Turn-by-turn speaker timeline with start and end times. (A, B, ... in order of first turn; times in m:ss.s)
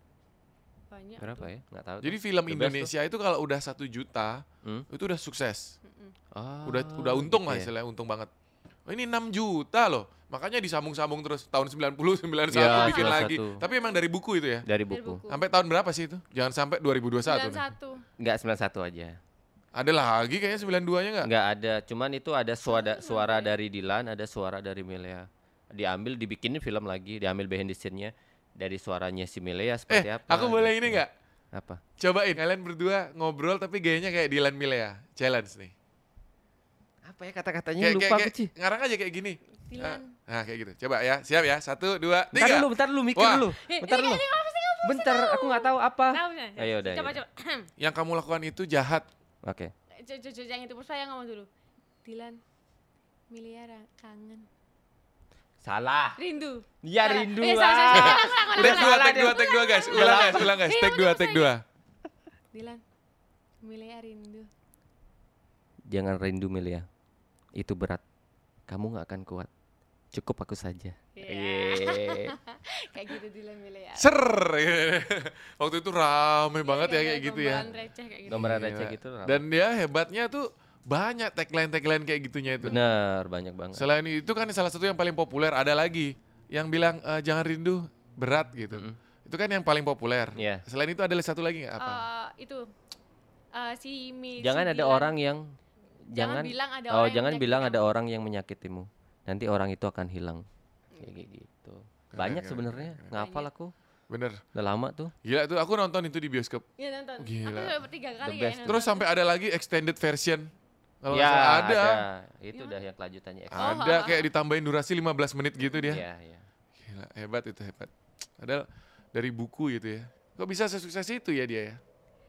0:00.9-0:01.5 A
0:01.2-0:02.9 B
0:02.0-0:05.7 C
0:04.6-0:04.9 B
0:05.8-0:06.1 A
0:06.3-0:07.7 B
0:06.6-0:08.3 C
0:08.8-0:14.6 C
0:12.5-0:13.6 B
0:12.5-0:14.0 A
0:14.6-0:15.2 B
0:14.9-0:15.4 A
0:15.3-0:17.6 C
0:17.2-0:18.0 A
0:18.2-0:19.2 B
0:19.7-0:21.3 C
0:21.2-0:31.0 B
0:22.6-0:23.5 A
0:29.9-0:31.1 C
0:31.5-0:31.8 B
0:32.0-0:35.7 C
0:37.0-0:38.5 B
0:37.8-0:43.5 C
0:39.6-0:40.1 A
0:42.3-0:44.2 B
0:43.5-0:47.7 A
0:44.8-0:47.2 B
0:47.8-0:49.0 C
0:49.4-0:49.7 B
0:49.9-0:51.5 A
0:52.0-0:52.4 A
0:53.3-0:54.5 A
0:55.6-0:56.2 B
0:56.2-1:01.5 A
0:56.8-1:00.6 B
0:57.9-1:01.6 C
1:02.5-1:02.8 A
1:03.6-1:04.5 A
1:05.9-1:06.9 B
1:07.6-1:08.0 B
1:08.7-1:09.5 B
1:10.1-1:12.4 B
1:11.1-1:14.1 A
1:14.0-1:17.7 C
1:16.6-1:18.5 A
1:18.3-1:19.4 B
1:18.3-1:22.8 C
1:22.6-1:23.9 B
1:22.7-1:23.0 A
1:23.7-1:32.0 C
1:28.7-1:29.0 B
1:30.4-1:30.6 B
1:31.8-1:32.7 A
1:33.5-1:35.1 A
1:34.4-1:35.5 B
1:36.1-1:40.4 B
1:36.2-1:37.9 A
1:41.0-1:43.7 B
1:42.1-1:43.1 C
1:43.1-1:43.5 A
1:44.1-1:44.4 C
1:44.5-1:45.1 B
1:45.2-1:46.6 C
1:46.8-1:49.1 A
1:47.2-1:47.8 C
1:48.2-1:48.8 B
1:48.7-1:50.5 C
1:51.0-1:52.0 C
1:51.1-1:54.2 B
1:52.5-1:52.8 A
1:53.5-1:56.0 C
1:53.6-1:54.2 A
1:55.8-1:56.5 B
1:56.8-2:01.8 C